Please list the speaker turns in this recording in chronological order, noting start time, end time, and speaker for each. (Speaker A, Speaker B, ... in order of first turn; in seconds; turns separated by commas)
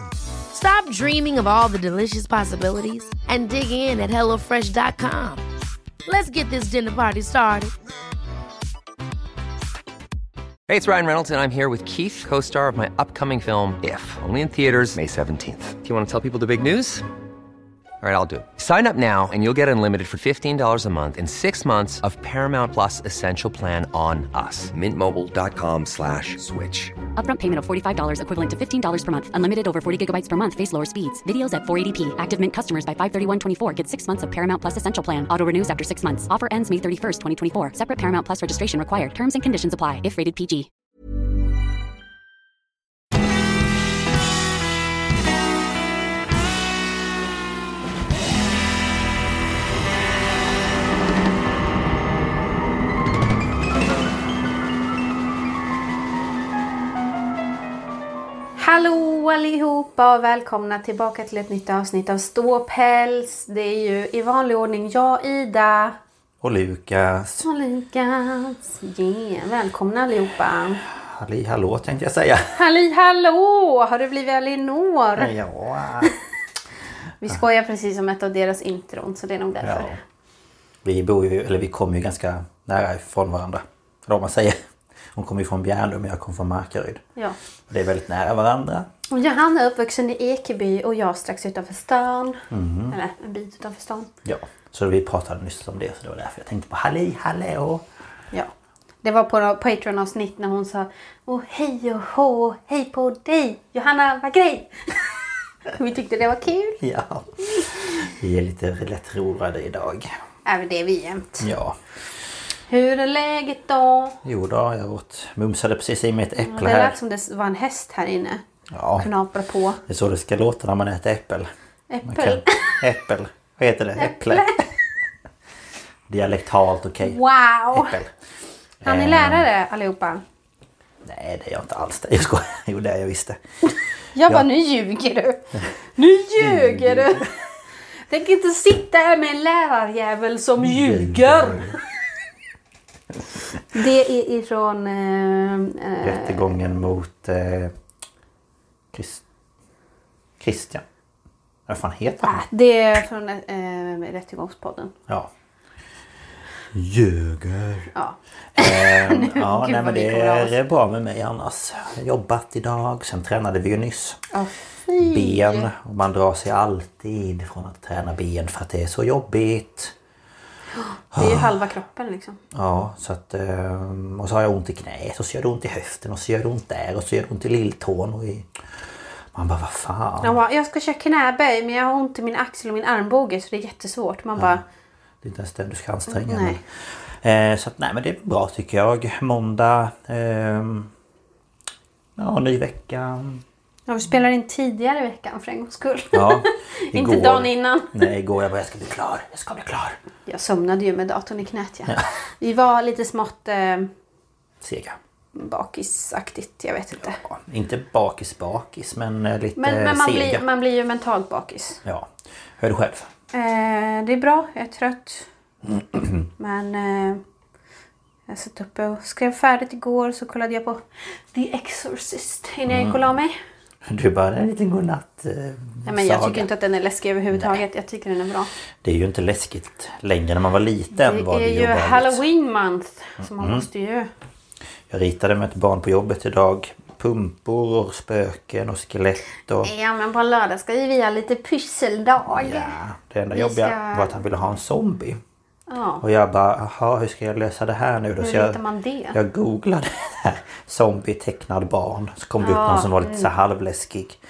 Speaker A: 0.5-5.4, Speaker A: 6.0-7.7, Speaker B: 10.7-17.0, Speaker B: 18.0-26.9, Speaker C: 27.1-40.7, Speaker D: 58.6-66.0, Speaker E: 66.4-67.5, Speaker D: 67.4-70.8, Speaker E: 70.8-72.6, Speaker D: 72.5-75.3, Speaker E: 75.2-76.1, Speaker D: 77.2-79.9, Speaker E: 79.6-80.0, Speaker E: 80.8-84.6, Speaker E: 85.1-87.0, Speaker E: 87.7-88.9, Speaker D: 89.1-94.1, Speaker E: 92.5-93.0, Speaker E: 94.2-97.8, Speaker D: 99.0-105.1, Speaker D: 105.7-106.8, Speaker E: 106.8-110.1, Speaker D: 110.5-111.5, Speaker E: 111.4-111.8, Speaker D: 112.7-114.2, Speaker E: 114.2-117.0, Speaker D: 116.4-118.4, Speaker E: 118.7-119.1, Speaker D: 119.0-119.8, Speaker E: 119.9-121.5, Speaker D: 121.9-122.8, Speaker E: 122.0-124.6, Speaker D: 124.0-124.7, Speaker E: 126.1-127.2, Speaker D: 127.0-128.0, Speaker E: 127.7-128.1, Speaker E: 128.8-129.5, Speaker D: 128.8-130.2, Speaker E: 131.0-133.4, Speaker D: 133.6-137.3, Speaker E: 136.3-137.3, Speaker D: 138.1-141.8, Speaker E: 140.6-141.8, Speaker D: 143.7-146.7, Speaker E: 146.0-147.7, Speaker E: 148.9-149.2, Speaker E: 150.4-150.8, Speaker E: 151.7-152.4, Speaker D: 152.2-154.9, Speaker E: 156.7-157.9, Speaker D: 157.9-160.6, Speaker E: 158.6-164.2, Speaker D: 164.3-165.7, Speaker E: 165.0-169.9, Speaker D: 170.8-172.4, Speaker E: 171.1-171.5, Speaker E: 172.5-178.5, Speaker E: 179.3-180.4, Speaker D: 180.2-184.6, Speaker E: 184.4-184.6, Speaker E: 185.2-190.9, Speaker D: 186.1-186.6, Speaker E: 192.2-193.4, Speaker D: 193.9-198.1, Speaker E: 196.1-200.0, Speaker D: 200.2-203.9, Speaker E: 204.6-205.0, Speaker D: 205.3-207.2, Speaker E: 207.0-210.4, Speaker D: 209.6-211.8, Speaker E: 211.8-213.1, Speaker D: 213.3-215.3, Speaker D: 216.3-217.2, Speaker D: 218.3-220.8, Speaker D: 221.3-223.3, Speaker E: 222.7-223.1, Speaker E: 223.8-226.5, Speaker D: 225.8-228.5, Speaker E: 227.3-227.6, Speaker E: 228.8-232.2, Speaker D: 230.9-234.1, Speaker E: 233.2-233.7, Speaker E: 234.9-239.7, Speaker D: 239.6-242.8, Speaker E: 242.3-245.2, Speaker D: 243.3-244.2, Speaker D: 245.7-246.0, Speaker E: 246.0-248.6, Speaker D: 248.2-249.2, Speaker E: 249.1-254.2, Speaker D: 252.4-253.3